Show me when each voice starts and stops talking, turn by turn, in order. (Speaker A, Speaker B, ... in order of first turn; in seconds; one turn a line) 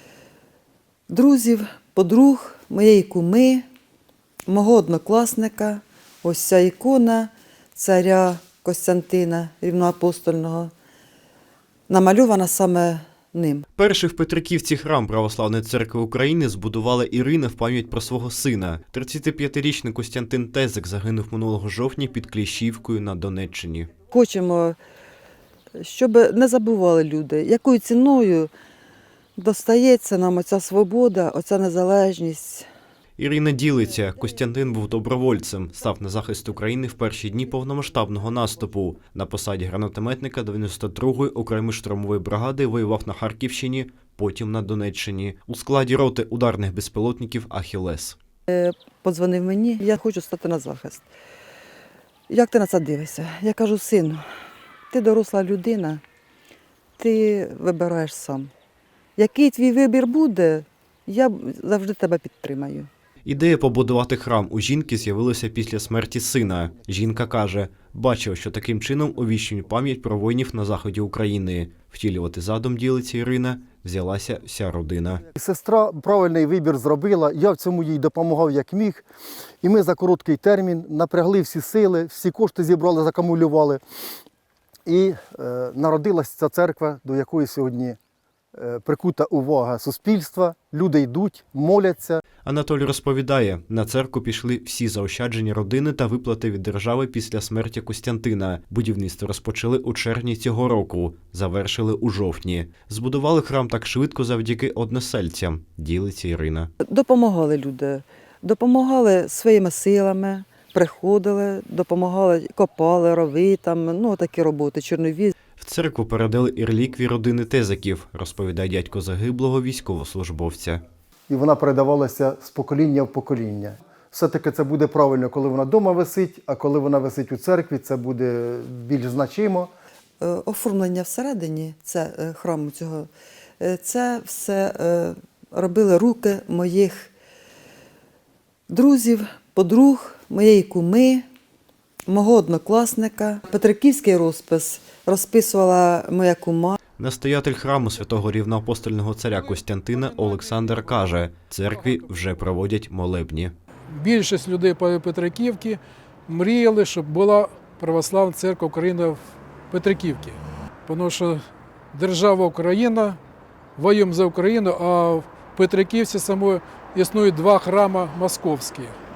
Speaker A: 1.1-3.6
Speaker A: 4.5-10.7
Speaker A: 11.9-13.7
Speaker B: 13.8-23.9
Speaker A: 24.1-24.8
Speaker A: 25.8-28.5
Speaker A: 29.4-32.7
Speaker B: 33.2-48.2
Speaker A: 48.5-51.0
Speaker A: 52.3-54.2
Speaker A: 54.9-56.0
Speaker A: 57.0-58.5
Speaker A: 59.2-62.9
Speaker B: 63.2-75.2
Speaker C: 75.3-79.0
Speaker C: 79.6-83.8
Speaker C: 84.9-88.0
Speaker C: 88.6-92.2
Speaker B: 92.4-106.7
Speaker A: 106.8-115.3
Speaker B: 115.6-120.8
Speaker C: 121.3-129.7
Speaker A: 130.2-133.1
Speaker A: 133.6-137.1
Speaker A: 138.7-141.2
Speaker A: 142.1-146.8
Speaker B: 147.0-153.5
Speaker D: 153.9-163.2
Speaker D: 163.8-169.0